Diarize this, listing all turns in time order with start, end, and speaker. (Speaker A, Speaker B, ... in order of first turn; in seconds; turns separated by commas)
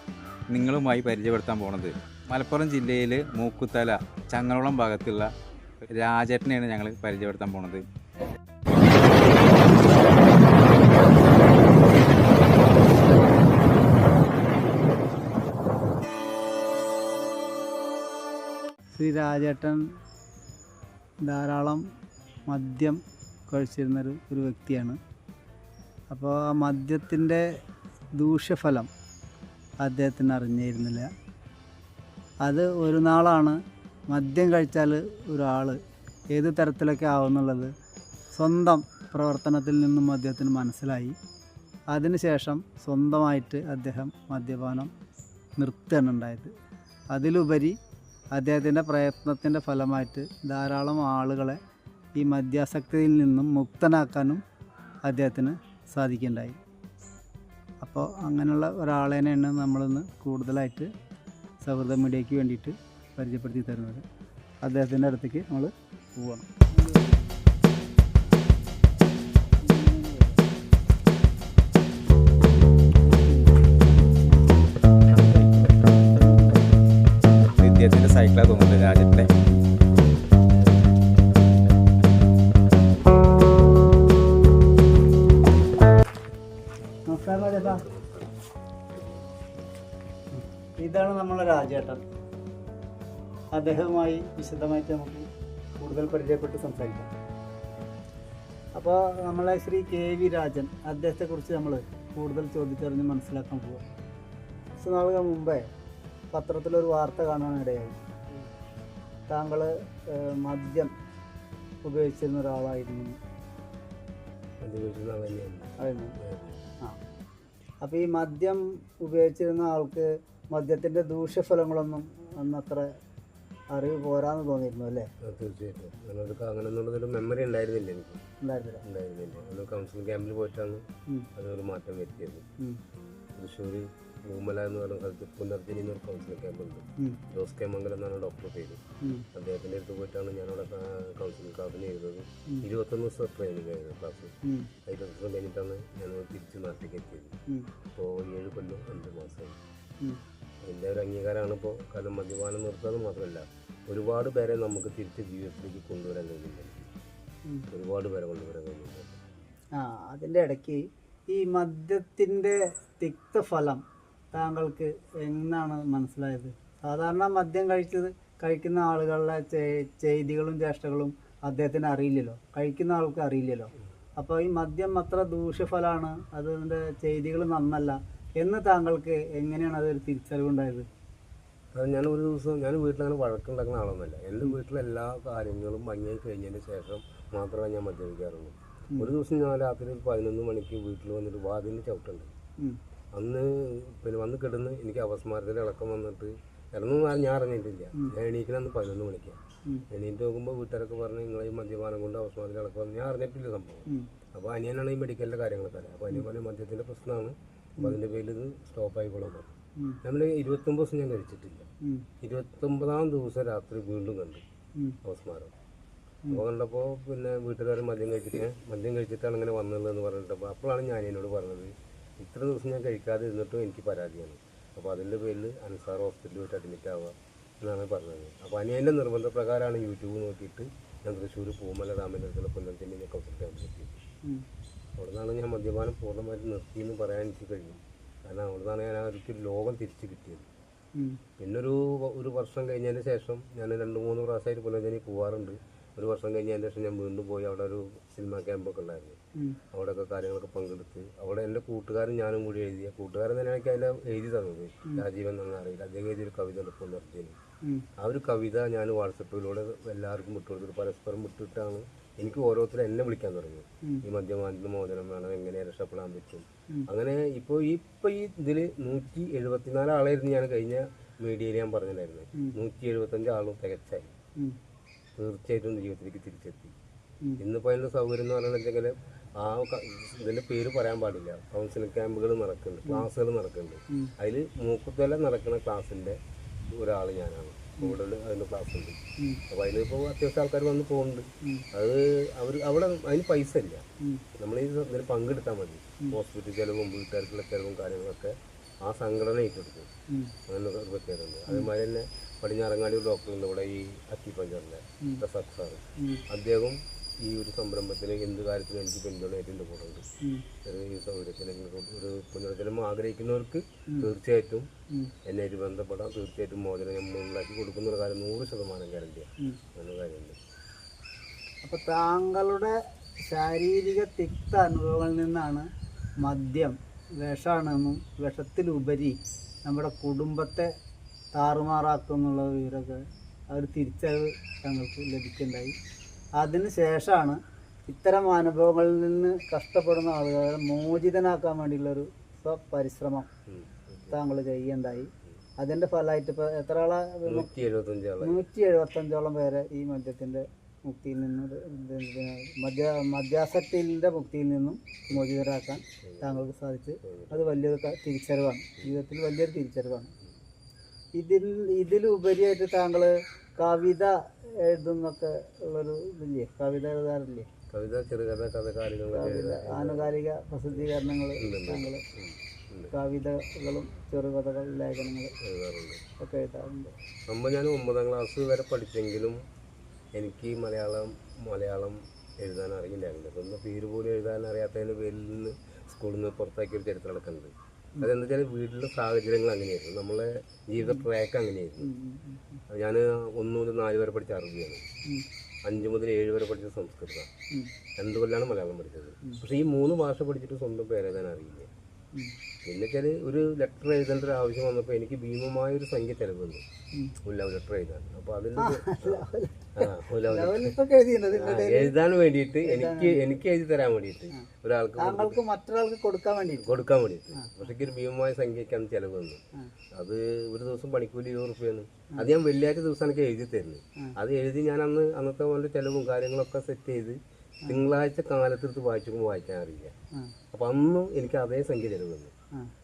Speaker A: 0.5-5.3, Speaker A: 5.8-7.8, Speaker B: 18.9-19.8, Speaker B: 21.2-21.8, Speaker B: 22.5-25.0, Speaker B: 26.1-27.4, Speaker B: 28.2-28.9, Speaker B: 29.8-31.1, Speaker B: 32.4-33.6, Speaker B: 34.1-35.8, Speaker B: 36.3-37.7, Speaker B: 38.3-41.1, Speaker B: 41.9-44.9, Speaker B: 45.6-46.5, Speaker B: 47.1-47.8, Speaker B: 48.3-51.6, Speaker B: 52.1-54.4, Speaker B: 55.0-56.6, Speaker B: 57.8-60.9, Speaker B: 61.6-64.0, Speaker B: 64.6-67.1, Speaker B: 69.6-70.4, Speaker B: 73.3-73.6, Speaker B: 75.2-75.6, Speaker A: 77.4-79.3, Speaker B: 87.1-87.8, Speaker C: 87.2-88.3, Speaker C: 88.9-89.2, Speaker B: 90.3-92.0, Speaker B: 93.5-95.2, Speaker B: 95.8-97.1, Speaker B: 98.8-103.8, Speaker B: 104.8-105.7, Speaker B: 106.3-108.0, Speaker B: 109.3-110.9, Speaker B: 111.8-113.2, Speaker C: 114.6-116.7, Speaker B: 115.8-116.1, Speaker B: 117.8-122.8, Speaker B: 123.7-125.1, Speaker C: 125.2-128.2, Speaker B: 128.4-128.8, Speaker C: 128.8-132.4, Speaker C: 133.3-138.8, Speaker B: 139.0-139.3, Speaker C: 139.3-144.3, Speaker B: 144.4-144.7, Speaker C: 144.8-147.3, Speaker C: 147.9-149.6, Speaker C: 150.6-156.9, Speaker C: 157.7-159.2, Speaker B: 159.8-163.8, Speaker B: 164.3-180.9, Speaker C: 181.7-192.3, Speaker C: 193.1-199.4, Speaker C: 199.9-209.5, Speaker C: 210.0-211.7, Speaker C: 212.2-214.4, Speaker C: 215.0-215.5, Speaker C: 216.3-234.0, Speaker C: 235.0-240.5, Speaker C: 241.4-249.2, Speaker C: 249.7-257.4, Speaker C: 258.0-274.1, Speaker C: 275.2-276.7, Speaker C: 277.4-289.0, Speaker C: 289.5-293.9, Speaker C: 294.4-299.9, Speaker C: 300.5-310.0, Speaker B: 306.0-306.2, Speaker C: 310.6-314.7, Speaker C: 315.2-320.4, Speaker B: 321.6-325.7, Speaker B: 326.2-330.7, Speaker B: 331.4-335.8, Speaker B: 336.4-343.3, Speaker C: 343.5-344.1, Speaker B: 344.1-347.5, Speaker C: 347.2-348.4, Speaker B: 348.2-360.1, Speaker C: 356.0-356.4, Speaker C: 357.0-357.6, Speaker B: 361.1-364.1, Speaker B: 364.6-367.5, Speaker C: 367.7-370.2, Speaker B: 369.1-372.0, Speaker C: 370.7-372.9, Speaker B: 372.9-375.3, Speaker C: 375.4-376.0, Speaker B: 376.2-376.9, Speaker C: 377.3-379.4, Speaker C: 380.1-391.9, Speaker B: 391.8-392.6, Speaker C: 392.7-394.8, Speaker C: 395.6-397.3, Speaker C: 398.0-401.7, Speaker C: 402.6-406.6, Speaker C: 407.2-410.7, Speaker B: 408.6-411.9, Speaker C: 411.3-415.4, Speaker B: 412.6-413.2, Speaker B: 415.0-417.6, Speaker C: 416.6-419.4, Speaker C: 419.9-429.9, Speaker C: 430.5-432.3